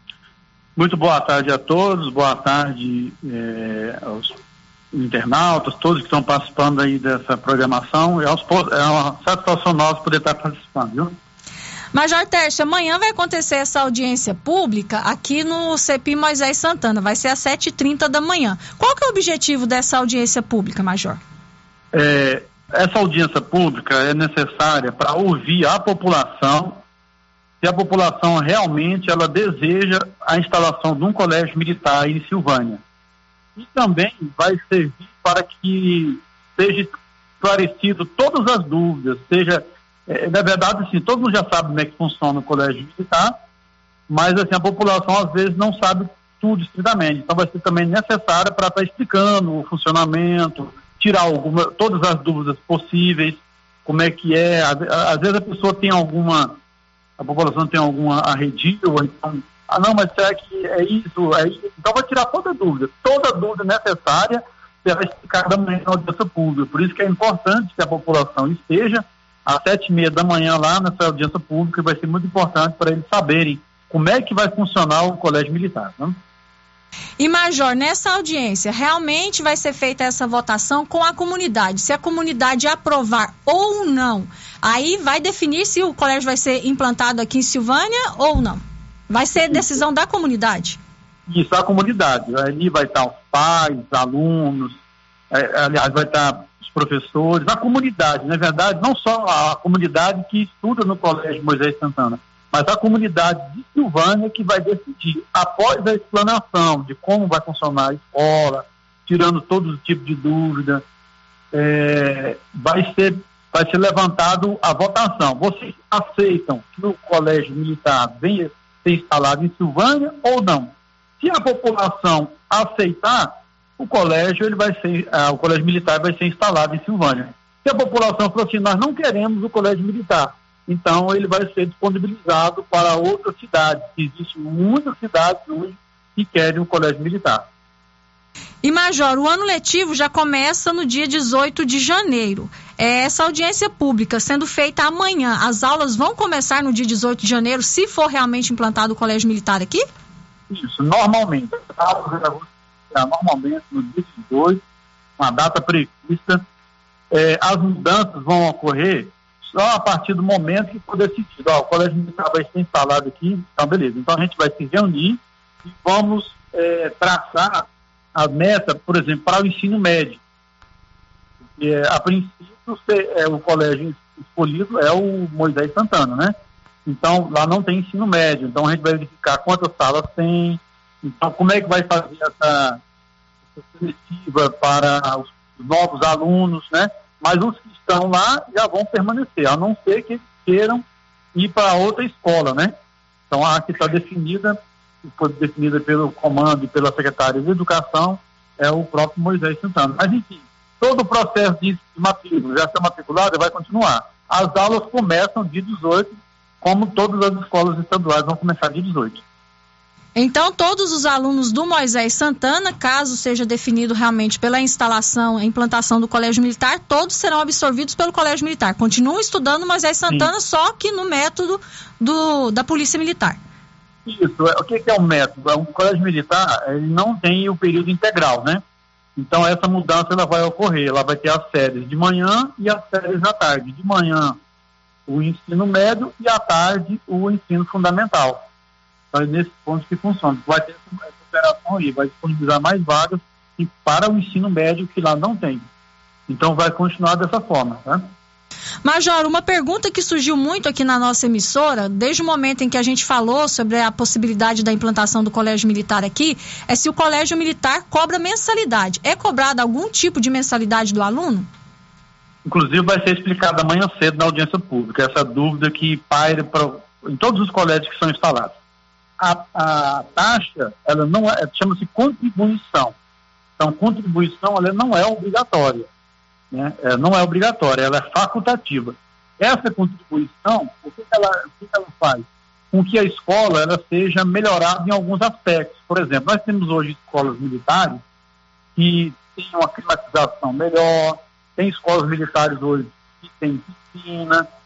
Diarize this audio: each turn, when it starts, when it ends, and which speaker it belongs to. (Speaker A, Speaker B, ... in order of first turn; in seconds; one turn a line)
Speaker A: 0.8-4.4
Speaker A: 4.9-11.2
Speaker B: 11.9-21.2
Speaker A: 21.9-26.8
Speaker A: 27.6-32.8
Speaker A: 33.6-43.4
Speaker A: 44.1-56.6
Speaker A: 57.2-76.2
Speaker B: 77.2-90.8
Speaker A: 91.3-94.8
Speaker A: 95.3-110.8
Speaker A: 111.5-137.5
Speaker B: 138.6-149.9
Speaker A: 150.5-154.6
Speaker A: 155.2-156.4
Speaker A: 157.1-170.2
Speaker A: 171.6-176.3
Speaker A: 176.9-182.8
Speaker A: 183.6-190.8
Speaker A: 191.3-192.7
Speaker A: 193.3-209.2
Speaker B: 210.2-223.4
Speaker A: 224.1-228.6
Speaker A: 229.2-234.4
Speaker A: 235.1-238.4
Speaker A: 239.1-245.7
Speaker A: 246.3-248.1
Speaker B: 248.8-261.5
Speaker A: 262.5-268.5
Speaker A: 269.2-272.9
Speaker A: 273.6-275.9
Speaker A: 276.5-288.0
Speaker A: 288.8-294.5